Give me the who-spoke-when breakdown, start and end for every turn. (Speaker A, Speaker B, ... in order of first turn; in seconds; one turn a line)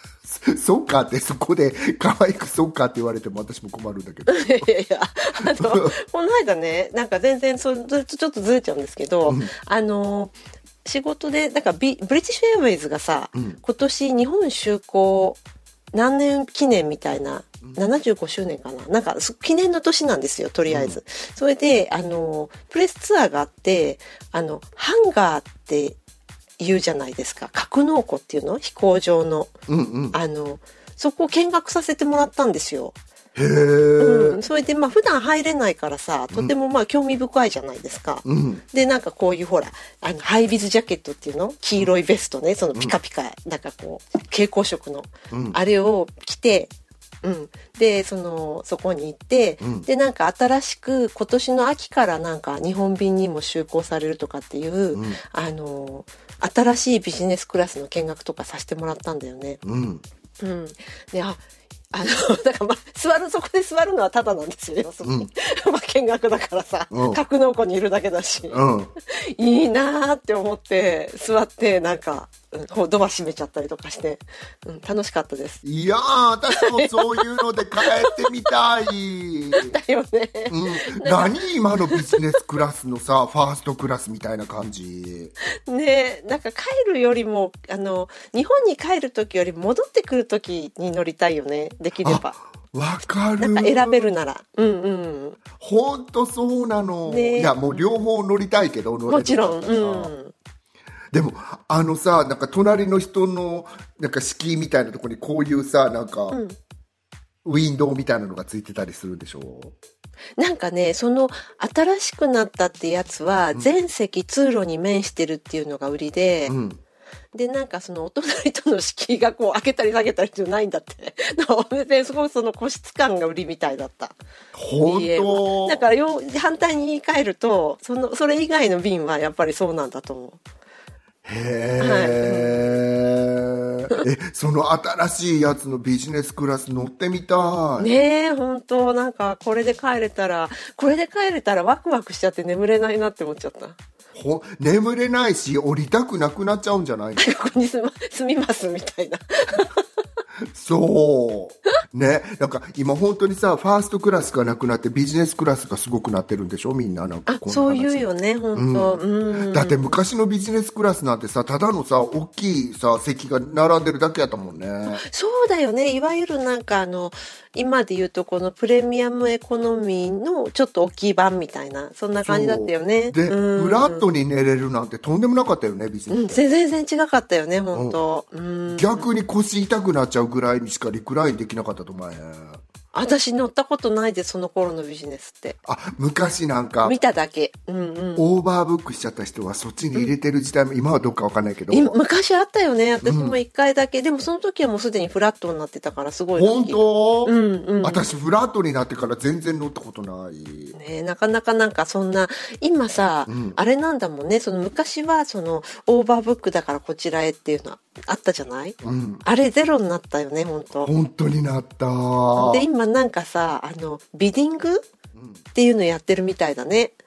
Speaker A: 0.2-4.7
Speaker B: 4.3-15.4
Speaker A: 5.5-6.0
Speaker A: 9.2-9.5
Speaker A: 13.3-13.6
Speaker B: 15.9-26.0
Speaker A: 17.6-17.9
Speaker A: 20.7-21.0
Speaker B: 26.6-29.5
Speaker A: 29.7-30.2
Speaker B: 30.1-32.9
Speaker A: 33.4-34.4
Speaker B: 34.0-46.7
Speaker A: 38.2-38.6
Speaker A: 45.3-45.6
Speaker B: 47.2-59.6
Speaker A: 49.6-49.9
Speaker A: 54.9-55.2
Speaker A: 59.6-60.0
Speaker B: 60.4-61.4
Speaker B: 61.9-75.6
Speaker A: 65.0-65.3
Speaker A: 66.9-67.2
Speaker A: 68.5-68.9
Speaker A: 75.6-79.8
Speaker B: 76.5-77.2
Speaker B: 77.8-78.4
Speaker B: 79.5-81.4
Speaker A: 80.5-85.3
Speaker B: 81.9-82.2
Speaker B: 85.7-92.4
Speaker A: 92.0-94.0
Speaker B: 93.4-95.4
Speaker A: 95.6-100.1
Speaker B: 97.1-97.8
Speaker B: 99.1-100.3
Speaker A: 101.1-106.4
Speaker A: 107.4-109.7
Speaker B: 110.4-116.5
Speaker A: 116.5-116.8
Speaker B: 117.3-124.2
Speaker A: 124.5-125.8
Speaker B: 124.8-130.4
Speaker A: 131.2-137.9
Speaker B: 131.8-132.7
Speaker B: 137.8-143.8
Speaker A: 144.1-147.3
Speaker B: 147.2-149.8
Speaker A: 150.5-165.0
Speaker B: 157.3-159.9
Speaker B: 164.8-174.1
Speaker A: 172.2-176.4
Speaker B: 176.1-179.1
Speaker A: 177.7-178.0
Speaker A: 178.7-182.6
Speaker B: 182.9-185.6
Speaker A: 185.7-187.0
Speaker B: 186.8-188.2
Speaker A: 188.2-192.0
Speaker B: 191.7-198.1
Speaker A: 193.0-193.4
Speaker A: 196.3-200.8
Speaker B: 200.7-210.9
Speaker A: 203.3-203.6
Speaker A: 208.8-209.2
Speaker A: 210.8-212.7
Speaker B: 212.3-214.8
Speaker B: 215.5-216.9